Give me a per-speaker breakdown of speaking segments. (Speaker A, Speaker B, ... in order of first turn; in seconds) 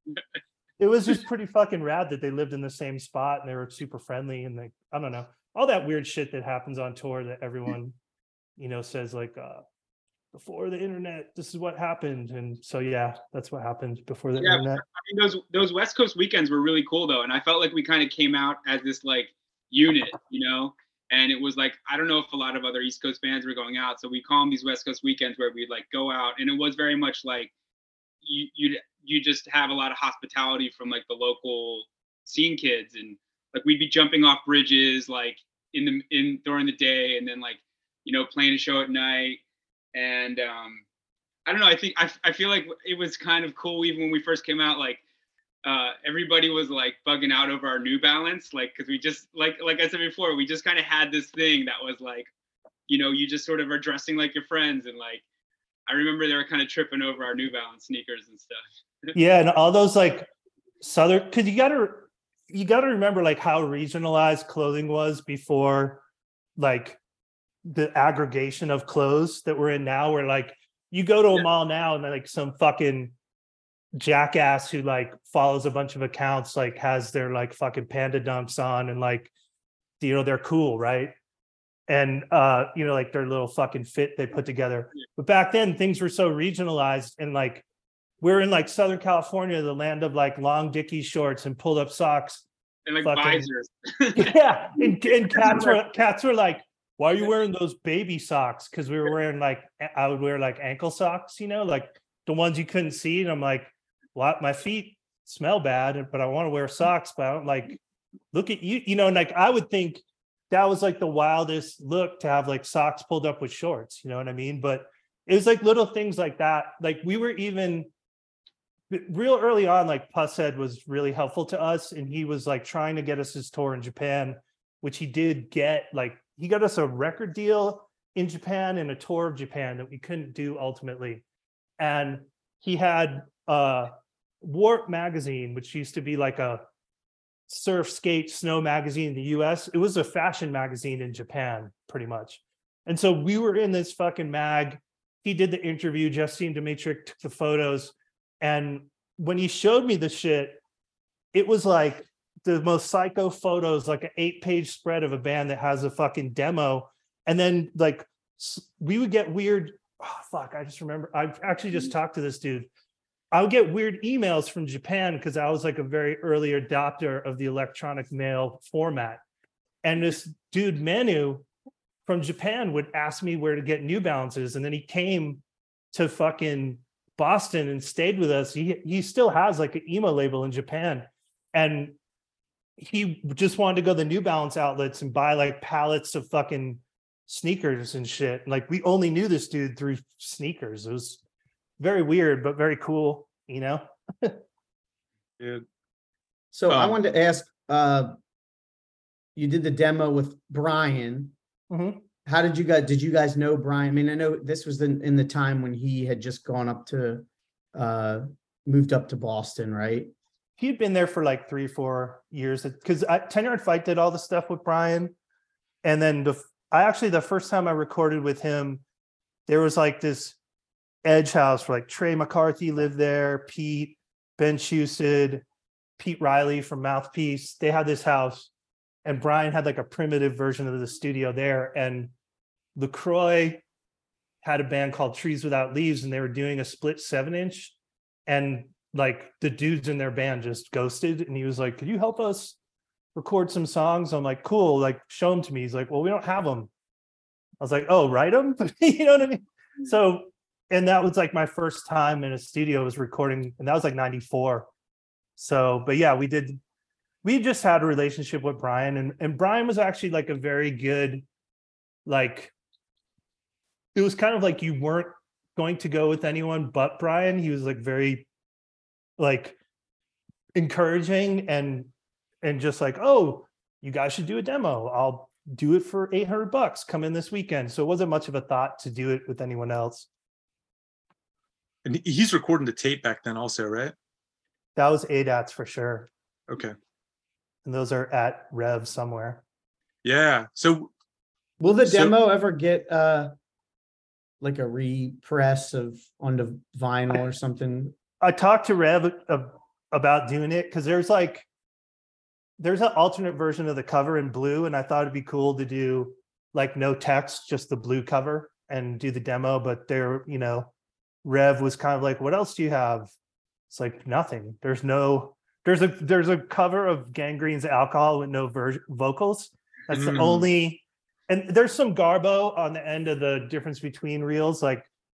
Speaker A: 0.8-8.0, 8.6-9.6, 10.3-14.8, 59.1-60.3, 60.8-66.0, 66.6-67.0, 67.6-73.1, 74.0-79.3, 80.0-81.1, 81.9-87.6, 88.2-92.4, 93.0-93.5, 94.2-107.8, 108.3-117.9, 118.9-131.2, 131.8-136.6, 137.5-150.6, 151.3-162.7, 163.3-169.2, 169.8-171.4, 172.0-175.4, 175.9-181.9, 182.8-191.2, 191.8-194.4, 201.7-202.0, 210.6-215.1, 215.8-218.8, 219.5-220.4, 221.0-225.4, 226.0-228.5, 229.0-232.1, 232.7-233.6, 234.4-237.7, 238.3-242.6, 243.1-246.7, 247.6-254.7, 255.4-256.6, 257.2-261.2, 262.1-262.5, 263.9-268.2, 269.2-269.6, 270.5-271.9, 272.4-280.1, 284.8-286.1, 287.6-289.4, 298.2-301.4, 302.6-310.7, 311.2-313.1, 313.7-324.9
Speaker B: 14.4-27.5, 28.2-39.4, 39.9-40.8, 41.5-45.0, 45.6-52.3, 52.9-55.2, 55.9-59.1, 92.8-94.3, 95.3-95.8
Speaker C: 195.4-195.6, 196.7-197.0, 281.8-283.9, 286.5-286.8, 290.0-290.9, 291.8-292.1, 319.9-320.5
Speaker D: 196.5-198.1, 199.3-201.3, 202.2-210.1, 291.6-293.3, 294.4-297.9